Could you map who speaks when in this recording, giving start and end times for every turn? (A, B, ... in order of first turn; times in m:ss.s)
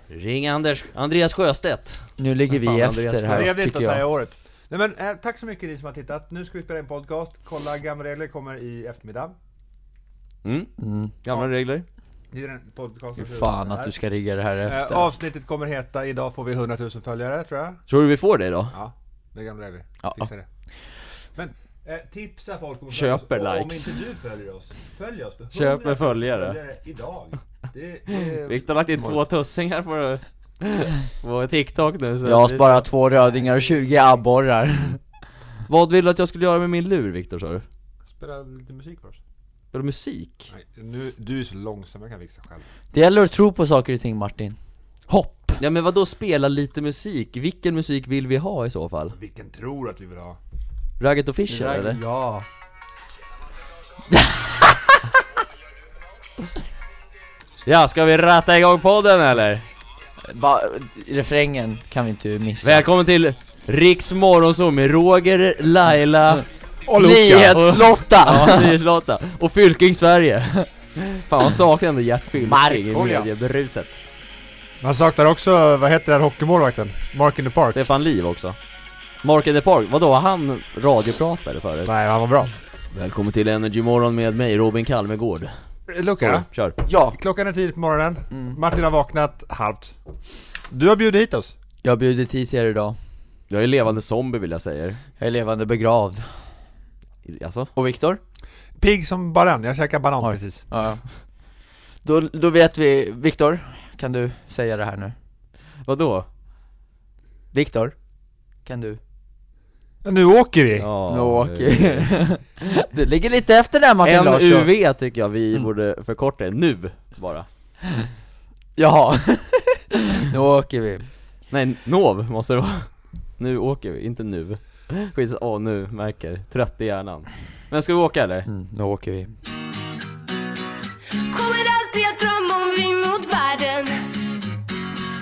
0:00.1-0:03.5 A
0:02.2-0:04.0 B
0:03.3-0:09.4 C
0:10.4-0:10.7 A
0:10.8-0:11.1 B
0:11.2-0:11.9 A
0:12.3-0:13.9 C
0:13.2-0:15.1 B
0:14.7-0:17.8 C
0:17.9-0:18.7 A
0:18.7-0:20.5 C
0:20.0-0:20.3 B
0:21.3-0:29.2 C
0:22.9-0:24.0 A
0:25.5-0:26.6 A
0:28.1-0:32.8 A
0:32.2-0:35.0 B
0:35.7-0:37.6 A
0:38.1-0:39.2 C
0:39.7-0:40.5 A
0:40.5-0:42.6 C
0:42.9-0:44.6 B
0:45.1-0:45.6 B
0:45.6-0:49.2 A
0:49.1-0:50.4 C
0:51.0-0:52.0 A
0:51.5-0:52.4 B
0:54.1-0:54.5 B
0:57.6-0:59.6 A
1:00.3-1:02.8 B
1:02.6-1:06.4 A
1:06.8-1:07.6 C
1:07.0-1:08.7 B
1:07.5-1:14.0 A
1:12.4-1:13.2 B
1:14.8-1:17.8 C
1:17.7-1:18.6 A
1:19.2-1:21.9 A
1:21.8-1:22.5 C
1:22.9-1:25.5 A
1:25.9-1:26.4 C
1:26.2-1:26.8 A
1:26.8-1:27.2 B
1:27.1-1:30.0 C
1:28.3-1:28.6 B
1:30.7-1:31.6 C
1:31.8-1:33.0 B
1:33.5-1:35.0 A
1:35.2-1:36.3 B
1:37.2-1:37.7 A
1:37.7-1:38.2 B
1:38.8-1:40.6 C
1:40.2-1:41.0 B
1:42.0-1:45.1 B
1:45.8-1:46.3 A
1:47.5-1:47.9 B
1:48.6-1:49.0 B
1:50.0-1:50.9 C
1:50.8-1:52.1 A
1:51.1-1:54.7 B
1:54.0-1:57.5 A
1:58.8-2:01.1 B
2:01.5-2:08.5 A
2:08.5-2:09.3 B
2:11.3-2:14.2 D